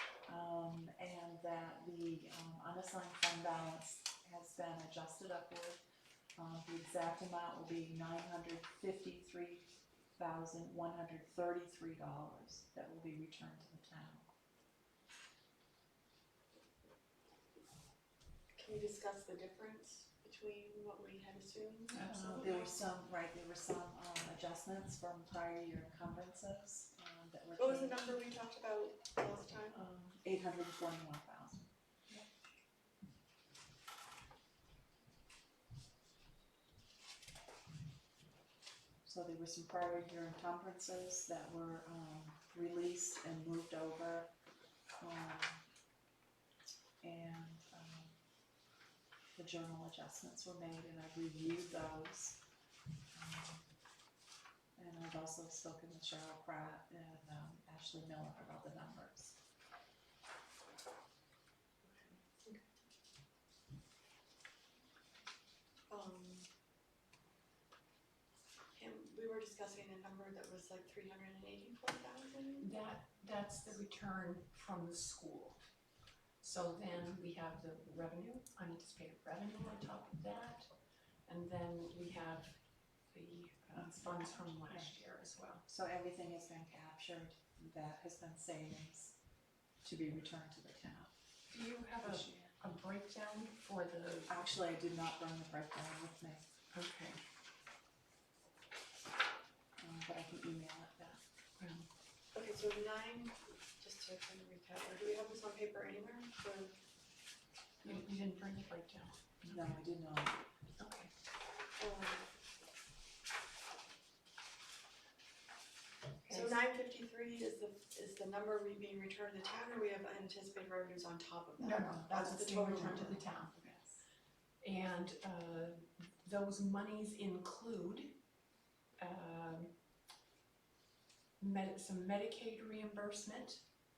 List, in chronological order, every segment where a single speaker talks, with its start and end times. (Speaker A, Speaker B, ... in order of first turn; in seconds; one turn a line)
Speaker A: 0.2-5.8
Speaker A: 6.4-14.3
Speaker B: 18.5-22.1
Speaker C: 21.9-22.8
Speaker A: 21.9-28.2
Speaker B: 27.6-29.8
Speaker A: 29.7-31.7
Speaker A: 39.0-44.3
Speaker A: 45.0-45.6
Speaker A: 47.0-48.2
Speaker A: 49.3-52.4
Speaker A: 53.1-53.7
Speaker A: 54.8-59.3
Speaker B: 61.8-62.6
Speaker B: 65.9-66.5
Speaker B: 68.8-72.7
Speaker C: 72.6-75.6
Speaker C: 76.4-80.7
Speaker C: 81.2-82.6
Speaker C: 83.1-85.6
Speaker A: 83.7-85.1
Speaker A: 85.6-89.2
Speaker A: 89.8-91.1
Speaker C: 91.5-94.4
Speaker A: 92.0-92.5
Speaker A: 94.3-96.4
Speaker C: 96.7-97.2
Speaker A: 99.8-101.2
Speaker C: 101.6-101.9
Speaker B: 102.3-106.8
Speaker C: 107.8-109.8
Speaker A: 109.4-110.4
Speaker C: 110.8-111.1
Speaker B: 111.8-112.3
Speaker C: 116.2-116.6
Speaker B: 116.3-123.2
Speaker C: 121.6-123.5
Speaker A: 121.8-124.0
Speaker C: 124.6-128.1
Speaker C: 129.0-129.7
Speaker C: 131.4-133.6